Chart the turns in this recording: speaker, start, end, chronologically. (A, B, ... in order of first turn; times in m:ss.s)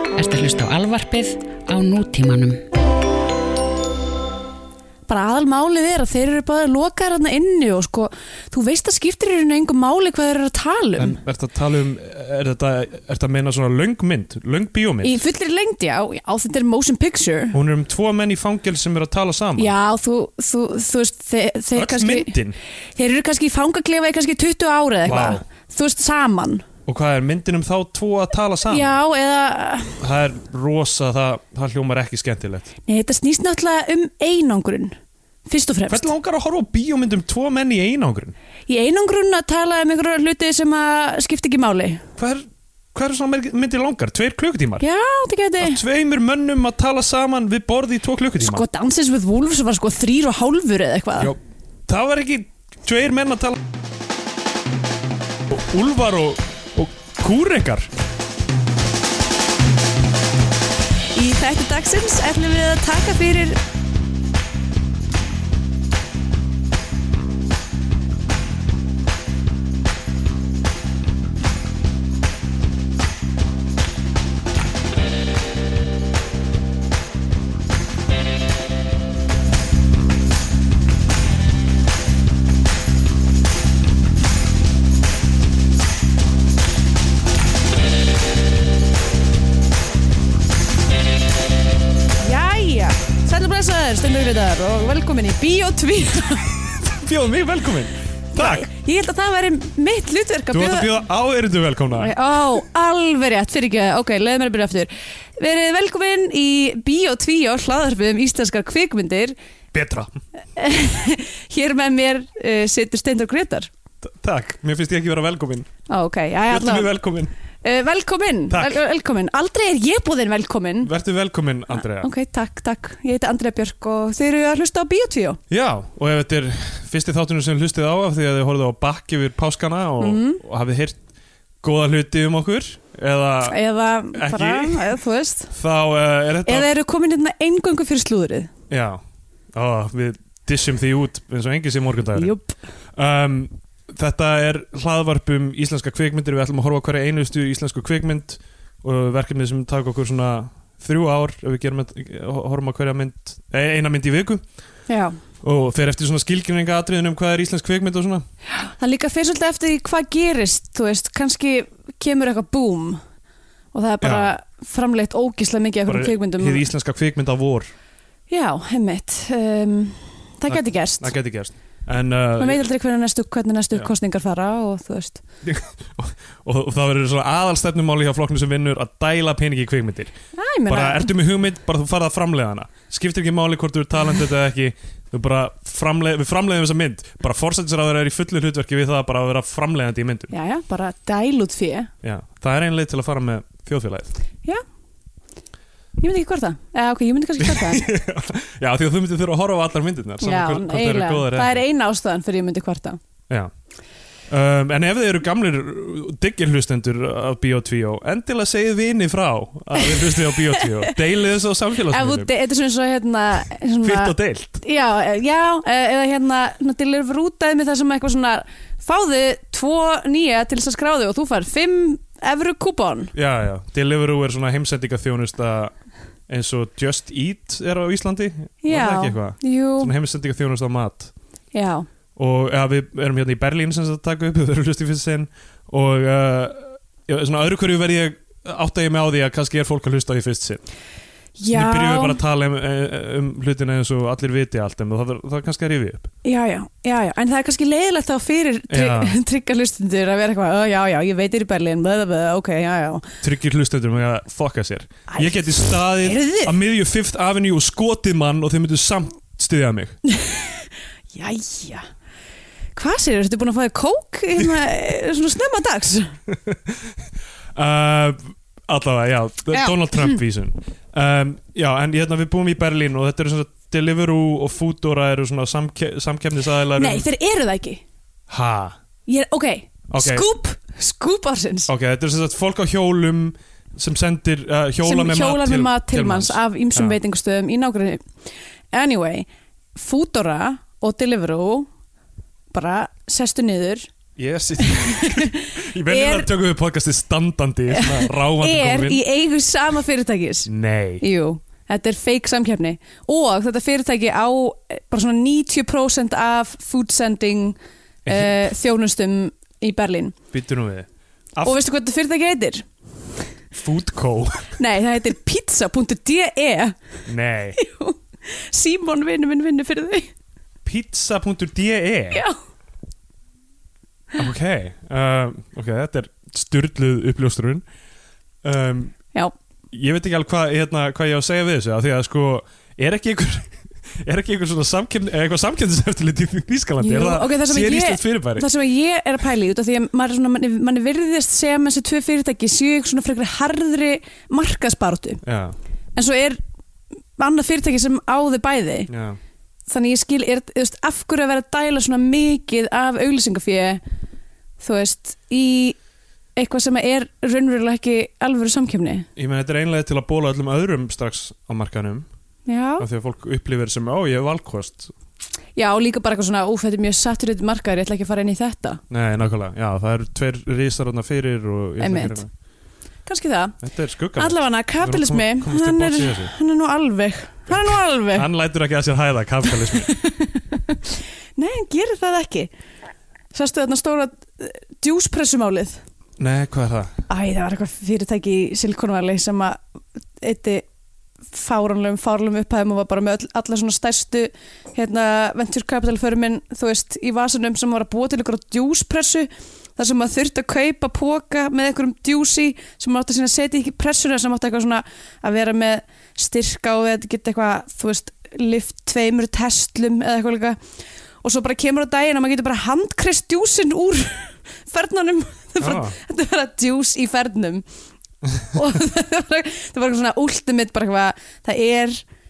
0:00.2-0:02.6 A
0:05.1-0:11.2 B
0:11.0-0:15.2 C
0:15.0-0:17.6 B
0:17.5-0:19.7 C
0:19.6-0:22.4 B
0:21.8-0:22.6 C
0:23.0-0:26.7 B
0:25.0-0:25.4 C
0:26.9-0:29.0 C
0:28.7-0:30.0 B
0:30.0-0:32.7 C
0:32.9-0:35.0 B
0:35.5-0:36.1 B
0:35.9-0:38.4 C
0:38.7-0:42.0 B
0:42.2-0:44.8 C
0:44.8-0:45.8 B
0:45.6-0:48.6 C
0:48.4-0:51.3 B
0:51.2-0:53.6 C
0:55.5-0:57.9 C
1:01.2-1:03.6 B
1:32.2-1:36.7 B
1:36.8-1:38.7 C
1:38.3-1:40.9 B
1:40.5-1:42.1 C
1:42.0-1:49.4 B
1:49.7-1:50.1 C
1:50.6-1:53.7 B
1:54.0-1:55.7 C
1:55.9-1:56.9 B
1:56.5-1:57.3 C
1:57.6-2:00.9 B
1:58.5-1:58.8 C
2:00.8-2:02.1 C
2:01.9-2:05.4 B
2:05.5-2:11.0 C
2:10.0-2:10.4 B
2:11.6-2:13.6 C
2:13.4-2:15.5 B
2:14.1-2:15.0 C
2:15.5-2:16.7 C
2:16.4-2:18.5 B
2:18.7-2:19.0 C
2:19.5-2:22.3 C
2:22.2-2:22.6 B
2:22.9-2:34.4 C
2:34.9-2:35.2 B
2:35.4-2:38.3 C
2:38.6-2:43.0 B
2:43.7-2:46.7 B
2:44.0-2:44.3 C
2:45.9-2:47.7 C
2:48.3-2:51.1 B
2:50.5-2:52.7 C
2:52.4-2:55.2 B
2:55.4-3:00.1 C
3:00.3-3:01.1 B
3:00.7-3:10.3 C
3:10.3-3:11.9 B
3:12.0-3:14.2 C
3:16.0-3:17.9 B
3:17.4-3:21.6 C
3:20.2-3:23.0 B
3:24.3-3:32.3 C
3:29.8-3:30.9 B
3:31.9-3:43.1 B
3:33.8-3:34.6 C
3:43.1-3:45.7 C
3:46.3-3:51.1 C
3:48.6-3:49.9 B
3:51.5-3:51.9 B
3:52.2-4:00.6 C
4:01.4-4:02.2 B
4:01.5-4:06.1 C
4:06.2-4:13.1 B
4:08.7-4:09.2 C
4:13.2-4:20.0 C
4:15.1-4:16.6 B
4:20.1-4:21.9 B
4:22.8-4:26.2 B
4:26.3-4:26.9 C
4:27.6-4:37.1 C
4:29.5-4:30.2 B
4:36.8-4:37.8 B
4:38.3-4:38.8 C
4:39.1-4:41.7 B
4:39.9-4:40.2 C
4:41.7-4:47.0 C
4:44.8-4:48.1 B
4:48.7-4:51.7 B
4:52.5-4:53.9 B
4:54.2-4:59.0 C
4:54.6-4:56.3 B
4:57.7-5:10.2 B
5:00.5-5:01.0 C
5:08.1-5:08.5 C
5:10.3-5:11.6 C
5:11.4-5:12.7 B
5:13.6-5:14.5 C
5:14.6-5:16.8 B
5:17.1-5:17.6 C
5:17.6-5:20.1 B
5:20.6-5:22.2 C
5:24.2-5:27.6 C
5:28.4-5:29.0 C
5:29.7-5:38.5 C
5:36.8-5:45.2 B
5:45.2-5:45.6 C
5:46.0-5:46.4 B
5:47.2-5:48.9 B
5:48.9-5:49.2 C
5:49.7-5:53.8 B
5:54.6-5:55.8 B
5:56.4-5:59.1 B
5:59.2-6:02.1 C
6:02.5-6:02.9 B
6:02.8-6:04.9 C
6:05.6-6:08.8 B
6:08.9-6:12.3 C
6:11.8-6:12.2 B
6:13.1-6:13.6 B
6:13.6-6:16.3 C
6:14.2-6:18.3 B
6:17.5-6:19.9 C
6:19.5-6:22.5 B
6:23.3-6:25.8 B
6:26.2-6:26.9 C
6:27.1-6:29.6 B
6:30.2-6:30.7 B
6:31.3-6:50.6 B
6:51.2-6:57.6 B
6:55.6-6:56.0 C
6:58.4-7:02.0 B